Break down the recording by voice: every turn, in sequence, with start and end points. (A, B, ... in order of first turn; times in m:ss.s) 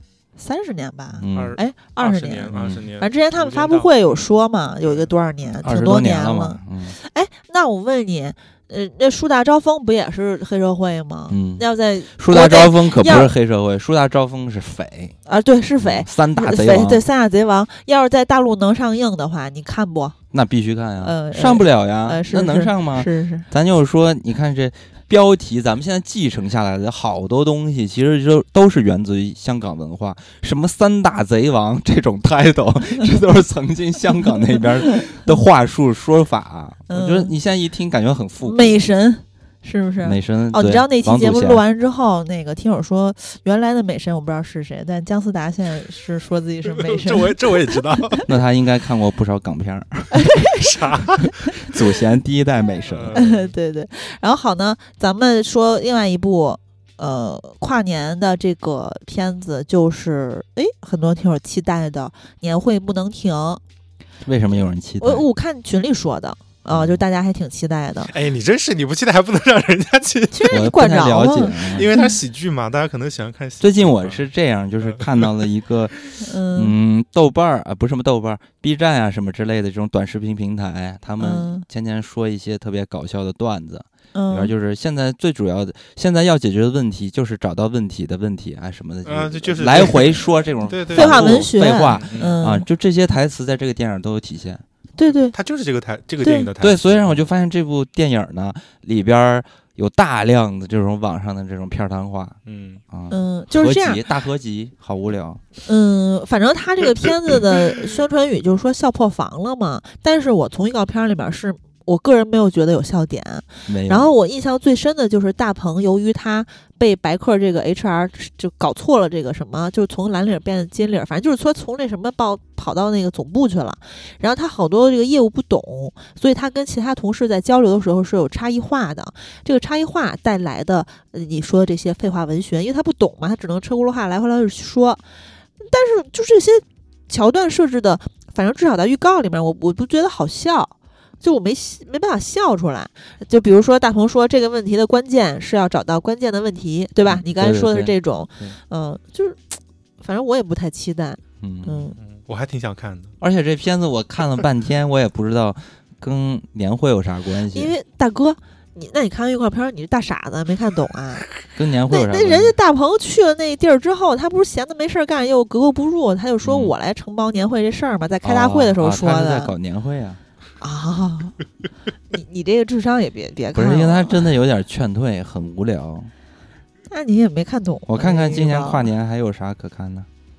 0:00.4-0:13.3 A
0:01.2-0:01.6 B
0:01.3-0:04.2 C
0:02.5-0:02.8 B
0:05.6-0:07.0 B
0:11.3-0:11.7 B
0:12.2-0:15.2 B
0:15.3-0:20.2 A
0:15.8-0:17.0 B
0:20.3-0:38.9 B
0:21.0-0:23.5 A
0:36.9-0:37.4 A
0:38.4-0:48.2 A
0:40.0-0:41.6 B
0:46.7-0:48.2 C
0:48.3-0:50.4 B
0:50.1-0:51.2 A
0:50.6-0:51.5 C
0:51.6-0:53.2 B
0:52.8-0:53.5 C
0:53.1-1:03.6 A
1:04.2-1:05.2 B
1:05.0-1:08.1 A
1:06.7-1:07.0 B
1:08.1-1:10.6 C
1:10.3-1:12.1 A
1:10.5-1:11.9 B
1:11.7-1:14.2 C
1:13.6-1:34.6 B
1:14.8-1:15.5 C
1:16.2-1:16.8 A
1:21.2-1:21.6 A
1:24.1-1:24.5 A
1:29.0-1:32.4 C
1:30.9-1:32.7 A
1:35.0-1:35.4 A
1:35.3-1:37.2 C
1:36.2-1:36.5 A
1:36.6-1:42.4 B
1:42.5-1:42.8 C
1:42.9-1:45.4 B
1:43.1-1:44.0 A
1:45.6-2:15.0 A
1:53.7-1:54.1 B
2:15.6-2:32.0 A
2:27.1-2:28.6 B
2:31.4-2:31.9 B
2:32.0-2:33.1 C
2:33.2-2:37.7 B
2:37.5-2:41.3 A
2:41.6-2:42.5 B
2:41.9-2:49.5 A
2:46.4-2:46.7 B
2:48.2-2:50.2 B
2:50.6-2:51.4 A
2:52.1-2:54.3 A
2:53.6-2:56.1 B
2:56.9-2:58.9 A
2:57.9-3:00.1 B